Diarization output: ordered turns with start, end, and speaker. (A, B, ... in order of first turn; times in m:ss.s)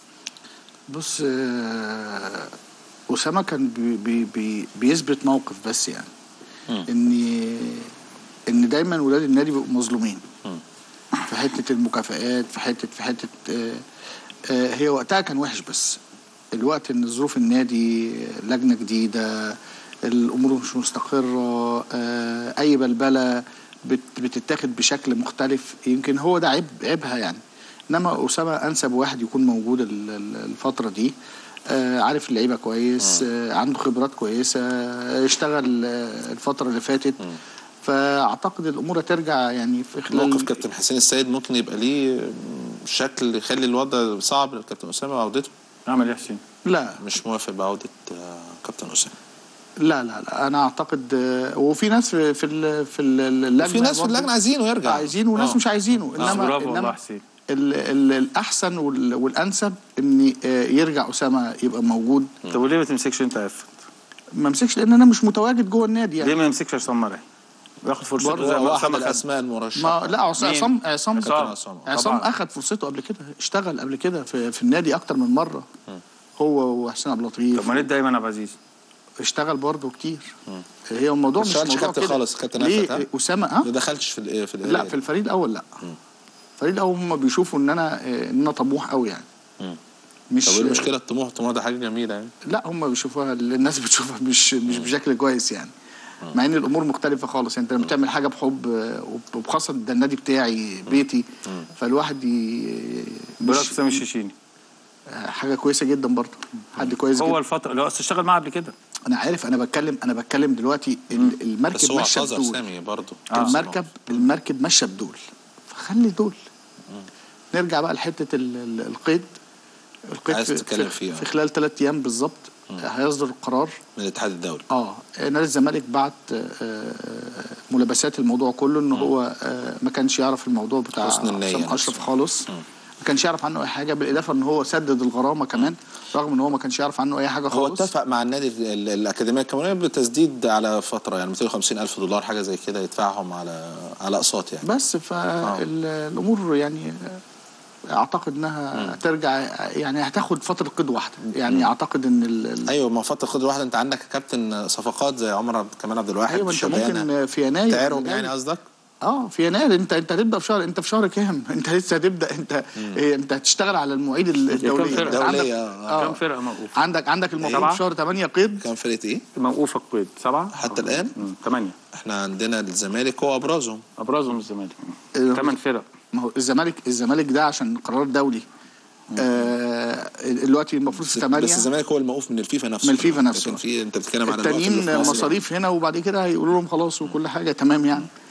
0:00.9-0:02.5 A
0:03.1-0:06.1 A
0:06.8-0:07.9 A
0:08.5-0:10.2 A
0:11.3-0:13.8 A
0:14.5-0:16.0 A
0:16.5-0:31.1 A
0:31.7-0:37.2 A
0:37.8-0:40.5 A
0:40.1-0:45.5 B
0:45.8-0:46.4 C
0:46.6-0:47.0 A
0:46.9-0:49.1 B
0:49.8-0:54.3 A
0:53.6-0:55.6 B
0:54.8-0:57.0 A
0:56.1-0:57.2 C
0:56.2-0:56.5 B
0:57.5-1:02.3 A
1:02.5-1:03.7 C
1:04.3-1:06.4 A
1:06.2-1:07.2 C
1:07.8-1:09.2 C
1:08.1-1:08.6 A
1:08.2-1:10.2 B
1:09.8-1:15.7 A
1:10.4-1:12.3 C
1:11.2-1:11.9 B
1:16.4-1:17.9 A
1:17.5-1:18.6 C
1:19.2-1:20.3 A
1:20.9-1:23.7 A
1:21.4-1:23.0 B
1:23.6-1:24.9 B
1:24.6-1:25.7 A
1:26.6-1:29.2 A
1:30.3-1:30.9 A
1:30.4-1:32.3 B
1:32.4-1:35.7 A
1:36.3-1:44.0 A
1:43.4-1:44.3 C
1:45.1-1:47.4 A
1:47.1-1:48.7 C
1:49.1-1:52.6 A
1:51.7-1:53.8 B
1:53.3-1:56.4 A
1:57.5-1:59.3 A
2:00.1-2:03.8 A
2:00.3-2:01.3 B
2:04.0-2:04.6 B
2:04.7-2:12.5 A
2:11.0-2:12.0 B
2:13.0-2:17.9 A
2:17.5-2:24.6 B
2:24.6-2:27.2 A
2:27.9-2:32.7 A
2:32.6-2:37.1 B
2:36.3-2:38.3 A
2:37.7-2:38.6 B
2:39.0-2:46.2 A
2:44.6-2:46.7 C
2:44.8-2:46.0 B
2:46.8-2:48.6 A
2:47.4-2:47.7 B
2:47.5-2:47.8 C
2:48.6-2:49.2 B
2:49.4-2:51.8 C
2:50.5-2:51.2 B
2:51.9-2:53.8 B
2:54.0-2:55.8 C
2:55.1-2:55.6 A
2:56.1-2:58.4 A
2:59.2-3:01.7 A
3:01.1-3:05.4 B
3:02.8-3:03.6 A
3:04.2-3:08.1 A